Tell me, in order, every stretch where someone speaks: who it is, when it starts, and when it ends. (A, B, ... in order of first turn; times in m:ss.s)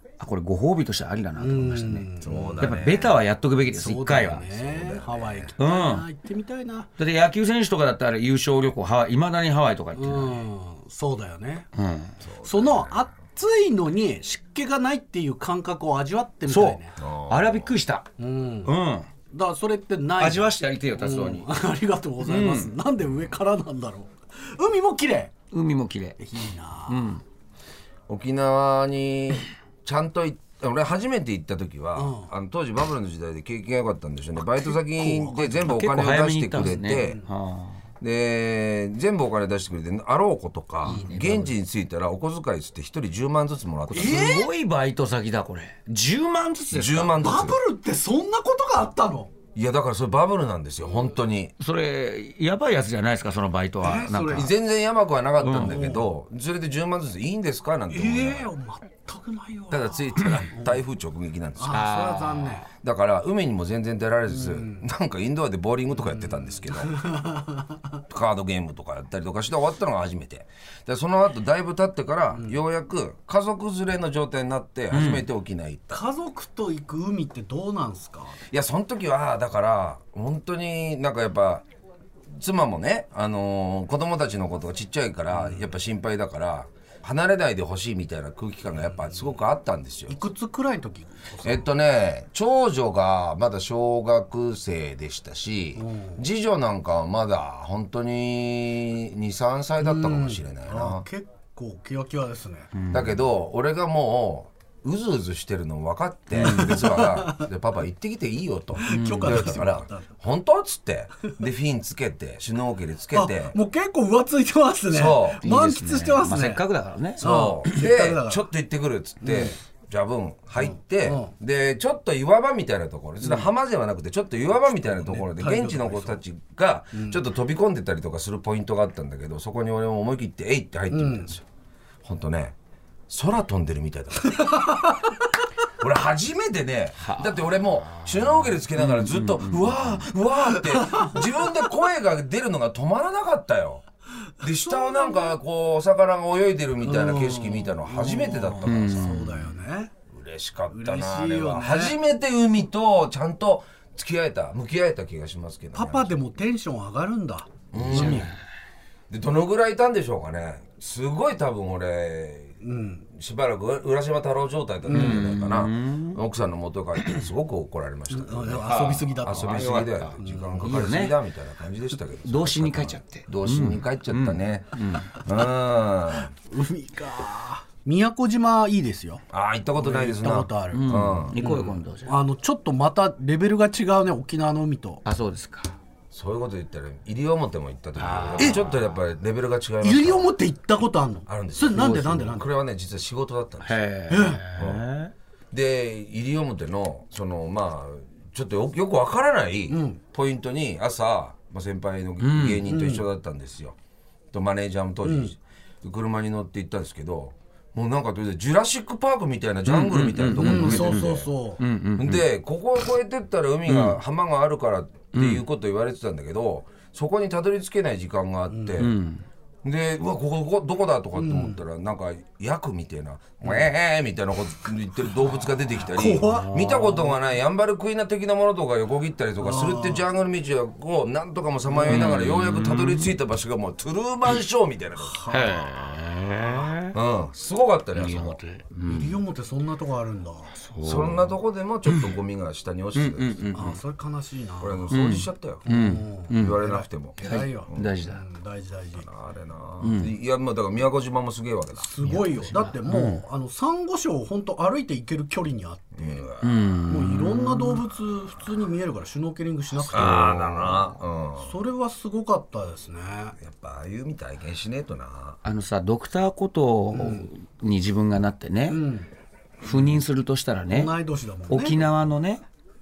0:00.2-0:02.1 A
0:01.4-0:02.7 B
0:02.2-0:03.2 C
0:02.6-0:04.4 A
0:03.7-0:06.9 B
0:04.4-0:05.5 C
0:05.6-0:06.0 A
0:07.0-0:10.4 A
0:09.9-0:11.7 B
0:11.8-0:12.1 A
0:12.2-0:13.1 C
0:12.4-0:16.9 B
0:16.5-0:18.1 A
0:17.0-0:17.8 C
0:18.2-0:18.7 B
0:18.6-0:19.1 A
0:19.3-0:25.3 B
0:20.2-0:21.5 A
0:22.2-0:22.8 A
0:25.5-0:26.2 A
0:26.2-0:27.1 B
0:26.9-0:27.2 A
0:28.1-0:37.2 C
0:32.0-0:32.3 B
0:34.4-0:35.6 B
0:35.6-0:37.8 A
0:38.0-0:44.3 C
0:40.8-0:41.5 A
0:43.9-0:47.2 A
0:43.9-0:44.5 B
0:46.7-0:47.6 C
0:47.2-0:49.3 B
0:49.5-0:51.5 C
0:51.6-0:54.5 A
0:53.8-0:54.5 B
0:54.3-0:58.5 C
0:55.4-0:55.8 A
0:55.6-0:56.1 B
0:57.9-1:00.8 B
0:59.7-1:01.9 C
1:01.6-1:02.7 B
1:01.7-1:02.6 A
1:02.8-1:06.9 C
1:04.3-1:04.8 B
1:06.0-1:07.8 B
1:08.1-1:16.0 C
1:14.9-1:15.3 A
1:15.9-1:18.4 B
1:18.5-1:21.6 C
1:22.3-1:30.2 C
1:25.3-1:25.6 B
1:30.1-1:31.6 B
1:31.4-1:41.0 C
1:35.8-1:36.2 B
1:39.8-1:42.7 B
1:42.7-1:43.1 A
1:42.9-1:53.6 C
1:46.4-1:46.7 A
1:46.4-1:47.4 B
1:48.8-1:50.1 B
1:48.9-1:49.5 A
1:53.1-1:56.6 B
1:54.9-1:55.4 C
1:55.4-1:57.2 A
1:57.2-1:58.5 B
1:57.2-2:11.4 C
1:59.2-1:59.6 B
2:00.6-2:01.3 B
2:04.7-2:06.2 B
2:07.0-2:07.2 B
2:10.9-2:11.3 B
2:12.0-2:12.5 C
2:13.1-2:14.8 C
2:15.8-2:23.8 C
2:17.0-2:20.0 A
2:24.4-2:29.2 C
2:24.6-2:25.4 B
2:26.8-2:29.9 B
2:28.6-2:29.5 A
2:30.1-2:36.2 C
2:30.7-2:32.0 B
2:35.7-2:38.3 B
2:37.7-2:38.3 C
2:37.8-2:38.3 A
2:39.1-2:42.6 C
2:42.6-2:43.0 B
2:43.1-2:56.3 C
2:44.9-2:46.2 A
2:44.9-2:45.2 B
2:48.1-2:50.8 B
2:48.6-2:51.2 A
2:52.2-2:55.1 A
2:56.4-2:59.2 B
2:59.3-3:01.4 C
2:59.8-3:05.0 B
3:00.7-3:02.2 A
3:05.0-3:05.7 A
3:06.1-3:10.3 C
3:08.0-3:08.8 A
3:09.8-3:12.5 B
3:11.3-3:13.8 C
3:13.6-3:15.1 A
3:14.1-3:14.5 B
3:14.6-3:14.8 C
3:15.5-3:23.7 C
3:19.7-3:20.0 B
3:22.2-3:22.6 A
3:22.7-3:23.0 B
3:24.3-3:31.3 C
3:25.0-3:25.3 B
3:29.6-3:32.2 A
3:30.4-3:31.6 B
3:32.0-3:38.9 C
3:33.7-3:34.0 A
3:35.1-3:35.4 A
3:38.5-3:38.8 B
3:38.8-3:39.2 A
3:39.6-3:55.2 C
3:41.2-3:41.6 B
3:45.9-3:46.8 B
3:46.3-3:46.8 A
3:49.4-3:50.1 B
3:51.7-3:52.1 B
3:51.9-3:53.1 A
3:55.0-3:55.6 B
3:55.3-3:56.9 A
3:56.9-3:58.4 C
3:57.9-3:59.2 A
3:58.8-4:00.5 B
4:00.5-4:01.4 A
4:00.8-4:03.8 C
4:01.9-4:02.1 A
4:02.9-4:03.8 A
4:03.5-4:05.0 B
4:04.6-4:05.6 C
4:04.9-4:06.6 A
4:05.6-4:09.0 B
4:06.3-4:07.9 C
4:07.2-4:08.2 A
4:08.9-4:11.9 C
4:09.8-4:10.1 A
4:11.8-4:16.3 B
4:12.0-4:13.2 A
4:16.0-4:16.6 C
4:16.4-4:17.8 A
4:16.9-4:23.4 B
4:19.8-4:20.4 A
4:19.9-4:21.6 C
4:23.4-4:25.4 C
4:25.4-4:28.8 A
4:26.9-4:27.3 B
4:28.7-4:29.1 B
4:29.6-4:30.9 A
4:30.7-4:31.8 B
4:31.5-4:32.4 A